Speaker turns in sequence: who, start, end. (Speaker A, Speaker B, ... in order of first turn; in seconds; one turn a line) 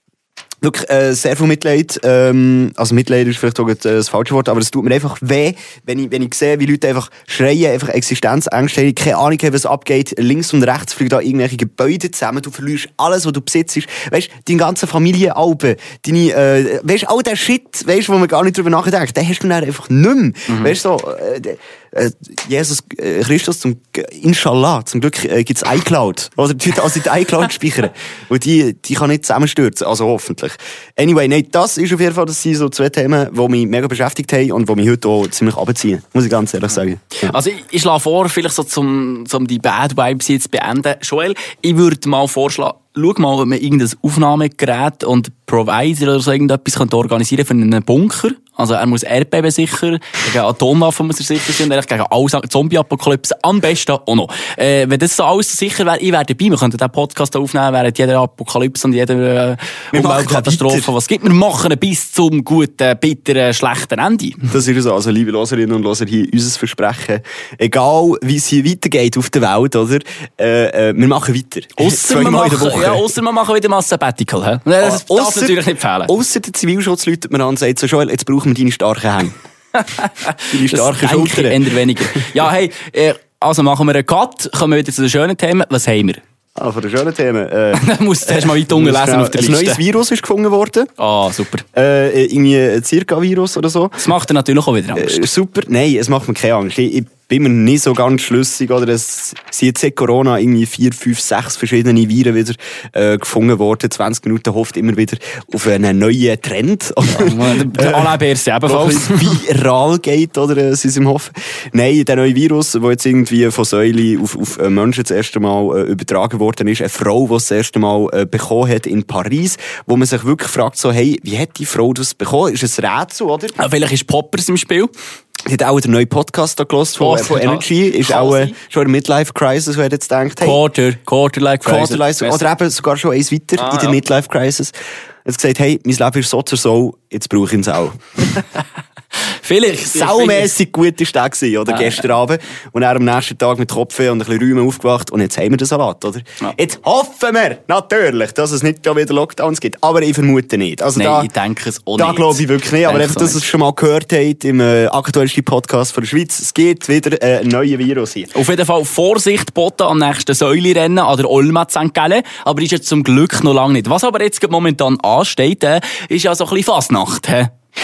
Speaker A: 0.6-37.4
Speaker B: 20.5-20.8
Speaker B: 37.2-64.5
Speaker A: 59.9-60.9
Speaker A: 64.5-73.0
Speaker B: 71.8-76.1
Speaker A: 74.8-79.3
Speaker B: 79.8-86.2
Speaker A: 80.5-82.3
Speaker A: 86.6-90.9
Speaker B: 87.7-89.8
Speaker B: 91.0-91.7
Speaker A: 91.7-94.0
Speaker B: 94.0-95.2
Speaker A: 95.0-123.6
Speaker B: 107.1-109.4
Speaker B: 123.6-124.9
Speaker A: 125.5-130.6
Speaker B: 127.0-128.6
Speaker B: 130.4-132.4
Speaker A: 131.7-134.7
Speaker B: 133.6-134.0
Speaker A: 135.2-138.0
Speaker B: 139.3-140.5
Speaker A: 139.9-151.3
Speaker B: 141.7-142.0
Speaker B: 150.9-153.4
Speaker A: 152.0-158.3
Speaker B: 158.3-167.5